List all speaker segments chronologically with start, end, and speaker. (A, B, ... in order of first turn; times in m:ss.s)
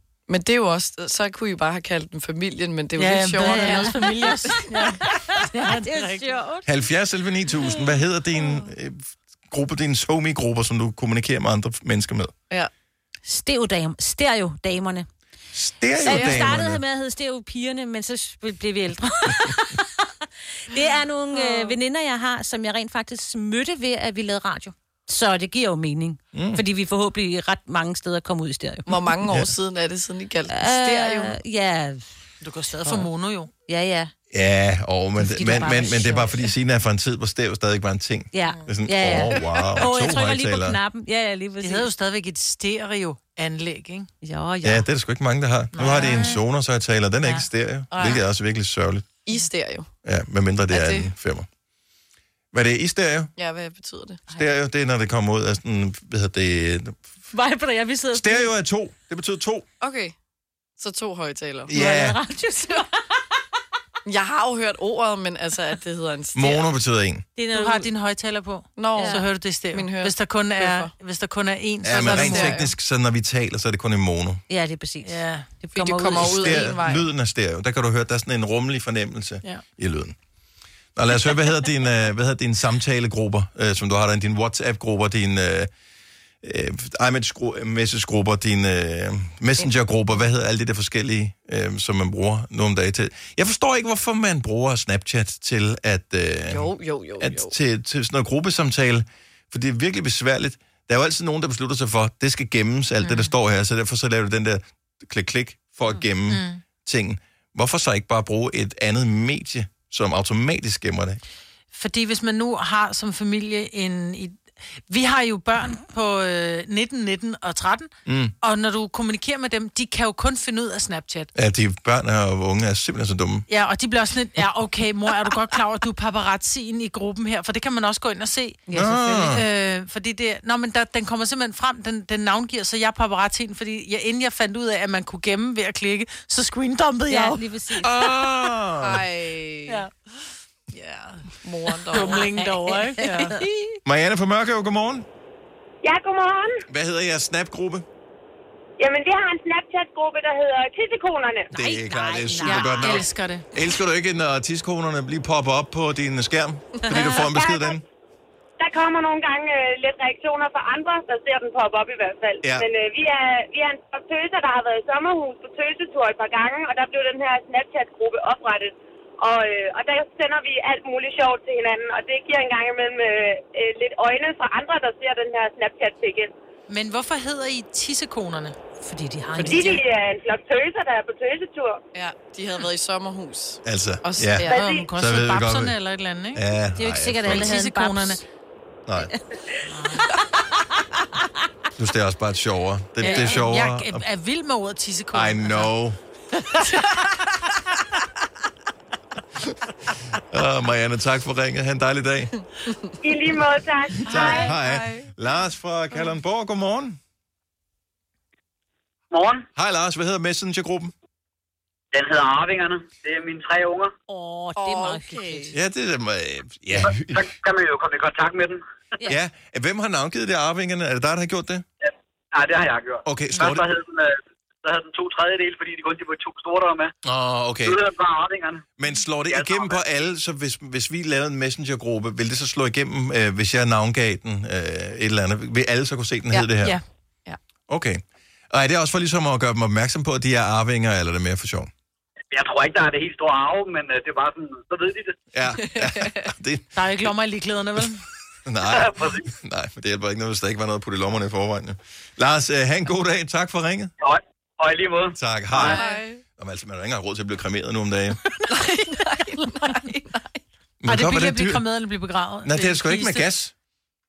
0:00.3-0:05.0 A
0:03.0-0:06.4 B
0:03.4-0:06.7 C
0:06.6-0:12.3 D
0:13.3-0:15.1 C
0:15.5-0:16.8 D
0:16.0-0:29.1 C
0:16.1-0:16.6 A
0:21.3-0:21.8 A
0:26.3-0:26.6 D
0:28.9-0:31.4 A
0:30.5-0:32.2 C
0:32.4-0:33.5 B
0:33.7-0:34.1 C
0:34.3-0:40.8 D
0:35.2-0:36.5 C
0:38.3-0:41.9 C
0:39.4-0:39.9 A
0:41.6-0:44.1 B
0:44.2-0:44.9 C
0:44.6-0:49.1 D
0:45.7-0:46.4 B
0:47.9-0:48.2 A
0:49.3-0:49.9 A
0:50.0-0:51.5 D
0:50.7-0:51.1 A
0:52.5-0:53.3 D
0:53.4-0:54.2 A
0:54.3-0:57.0 D
0:57.3-0:58.5 C
0:58.1-0:59.6 D
0:59.8-1:00.1 A
1:00.8-1:01.8 A
1:01.7-1:02.2 D
1:01.7-1:03.0 C
1:04.0-1:06.6 A
1:06.3-1:07.3 D
1:07.4-1:07.9 C
1:07.5-1:12.7 B
1:08.8-1:10.9 A
1:09.0-1:09.2 C
1:11.8-1:14.4 D
1:11.9-1:12.6 A
1:14.5-1:16.8 C
1:15.0-1:15.5 B
1:15.8-1:17.1 A
1:16.2-1:20.2 D
1:21.0-1:25.7 D
1:26.4-1:51.2 D
1:36.5-1:37.5 A
1:43.0-1:43.3 B
1:46.3-1:46.6 B
1:51.7-1:57.9 B
1:58.1-1:58.3 D
1:58.4-2:01.3 B
2:01.4-2:03.5 D
2:03.5-2:08.6 B
2:08.7-2:09.4 C
2:08.7-2:09.5 D
2:09.2-2:17.4 B
2:17.1-2:18.0 C
2:17.8-2:19.1 D
2:18.8-2:19.9 A
2:20.7-2:22.3 A
2:21.9-2:23.5 B
2:22.0-2:23.5 C
2:23.0-2:23.3 A
2:23.8-2:25.1 D
2:25.8-2:26.6 E
2:26.7-2:27.9 D
2:28.8-2:31.5 E
2:31.5-2:37.8 D
2:31.5-2:33.0 C
2:32.4-2:33.5 B
2:37.4-2:37.8 E
2:38.6-2:56.3 E
2:42.4-2:42.7 D
2:56.7-2:58.6 B
2:58.8-2:59.8 C
2:59.5-3:01.8 E
3:01.9-3:04.6 A
3:03.6-3:05.8 D
3:04.5-3:06.4 B
3:04.5-3:04.9 E
3:06.3-3:07.6 D
3:06.8-3:08.2 C
3:07.3-3:08.2 B
3:09.7-3:10.1 B
3:11.8-3:14.0 D
3:13.0-3:15.7 B
3:13.0-3:13.4 A
3:15.1-3:16.0 D
3:16.7-3:17.0 A
3:20.2-3:22.4 D
3:23.0-3:24.3 E
3:24.0-3:27.0 D
3:24.0-3:25.1 A
3:29.1-3:29.5 F
3:29.6-3:30.9 D
3:31.9-3:33.9 F
3:34.1-3:35.5 C
3:34.6-3:35.6 A
3:35.5-3:37.3 D
3:36.8-3:38.6 F
3:39.1-3:41.6 D
3:41.8-3:46.9 F
3:43.0-3:43.7 D
3:47.0-3:47.8 D
3:47.6-3:48.6 F
3:48.8-3:56.8 D
3:49.3-3:49.8 F
3:57.7-4:01.7 D
4:02.3-4:05.2 F
4:05.3-4:07.1 D
4:05.6-4:06.3 A
4:06.7-4:08.0 B
4:08.5-4:13.9 D
4:08.8-4:09.2 F
4:14.0-4:15.8 F
4:15.1-4:15.8 D
4:15.5-4:16.2 A
4:16.4-4:18.2 D
4:18.5-4:20.3 A
4:18.6-4:20.0 B
4:20.8-4:21.6 D
4:20.9-4:23.3 B
4:22.4-4:23.5 D